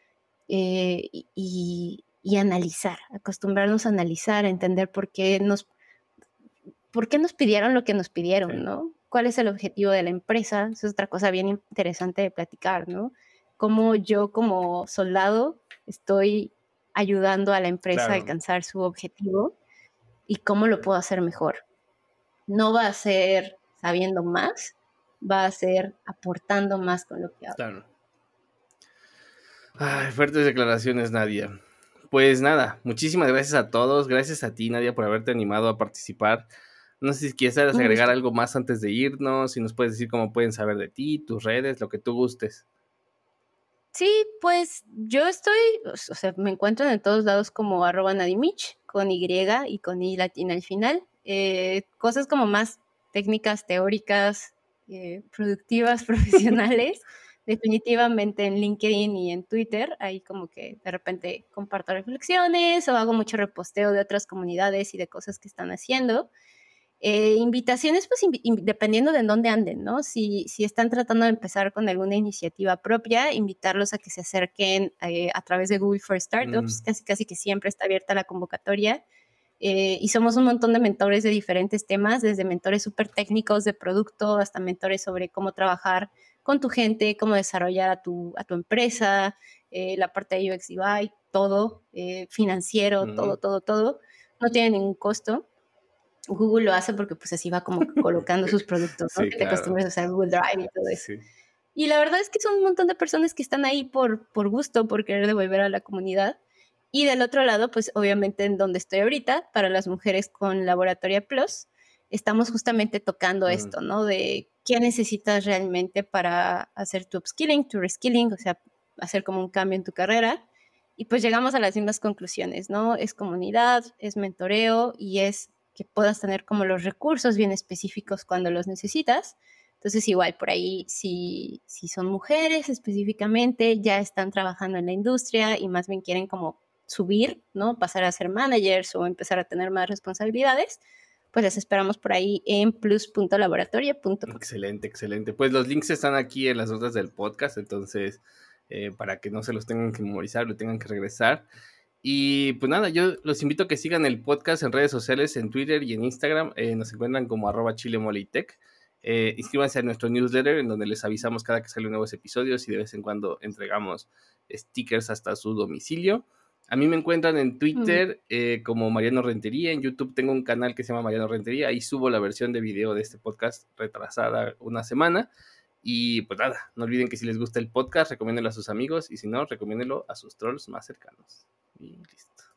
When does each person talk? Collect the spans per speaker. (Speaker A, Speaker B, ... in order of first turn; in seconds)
Speaker A: 0.5-5.7, 6.9-19.6, 20.3-21.6, 22.5-27.6, 37.7-38.1, 43.9-66.3, 67.0-79.0, 79.6-95.5, 96.3-101.0, 101.8-106.4, 106.9-120.4, 121.0-140.8, 141.3-144.4, 167.8-168.0
Speaker B: 17.9-18.3, 27.6-27.9, 29.8-31.6, 32.1-36.5, 37.0-42.6, 76.4-76.8, 93.0-93.4, 99.1-99.8, 100.9-101.2, 113.5-113.7, 144.3-151.5, 152.0-175.3, 175.8-182.5